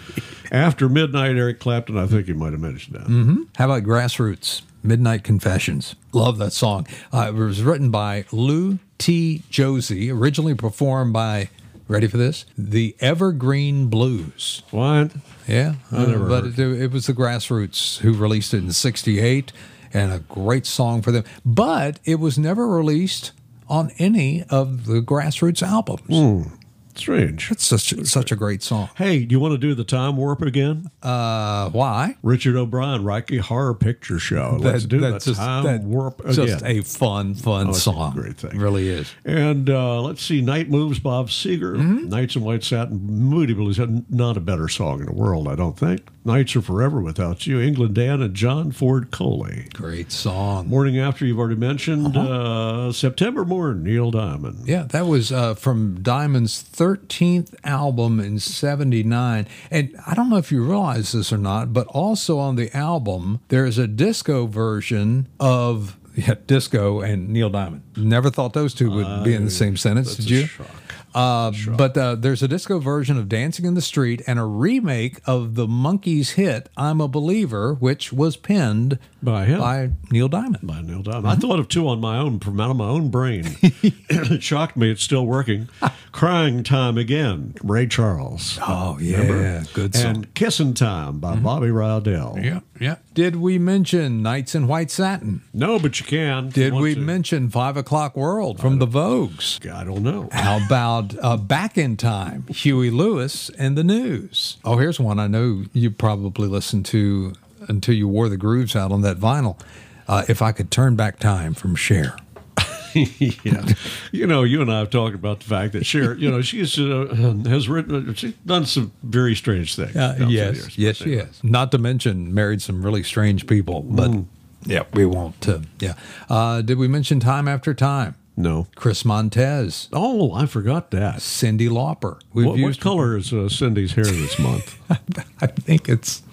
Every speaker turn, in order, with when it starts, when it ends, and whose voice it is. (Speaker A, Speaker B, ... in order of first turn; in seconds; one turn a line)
Speaker A: 0.5-3.2
Speaker B: 3.1-14.6
Speaker A: 14.7-15.2
Speaker B: 15.5-26.2
Speaker A: 15.9-16.6
Speaker A: 26.1-28.3
Speaker B: 27.5-28.9
Speaker A: 28.9-30.9
Speaker B: 31.0-32.2
Speaker A: 32.2-36.7
Speaker B: 34.4-39.1
Speaker A: 37.6-49.7
Speaker B: 41.8-42.1
Speaker B: 49.7-50.8
Speaker A: 50.7-54.7
Speaker B: 54.6-70.5
Speaker A: 68.8-71.9
Speaker B: 71.1-79.0
Speaker A: 79.2-79.7
Speaker B: 79.6-80.6
Speaker A: 80.6-92.5
Speaker B: 88.6-90.2
Speaker B: 92.3-95.4
Speaker A: 95.5-97.2
Speaker B: 96.5-99.6
Speaker A: 98.6-98.9
Speaker A: 99.6-100.5
Speaker B: 100.3-112.2
Speaker A: 112.6-121.3
Speaker B: 119.9-128.2
Speaker A: 123.9-124.3
Speaker A: 128.4-128.7
Speaker B: 128.8-129.9
Speaker A: 129.9-131.2
Speaker B: 131.2-133.1
Speaker A: 132.4-134.8
Speaker B: 134.9-136.2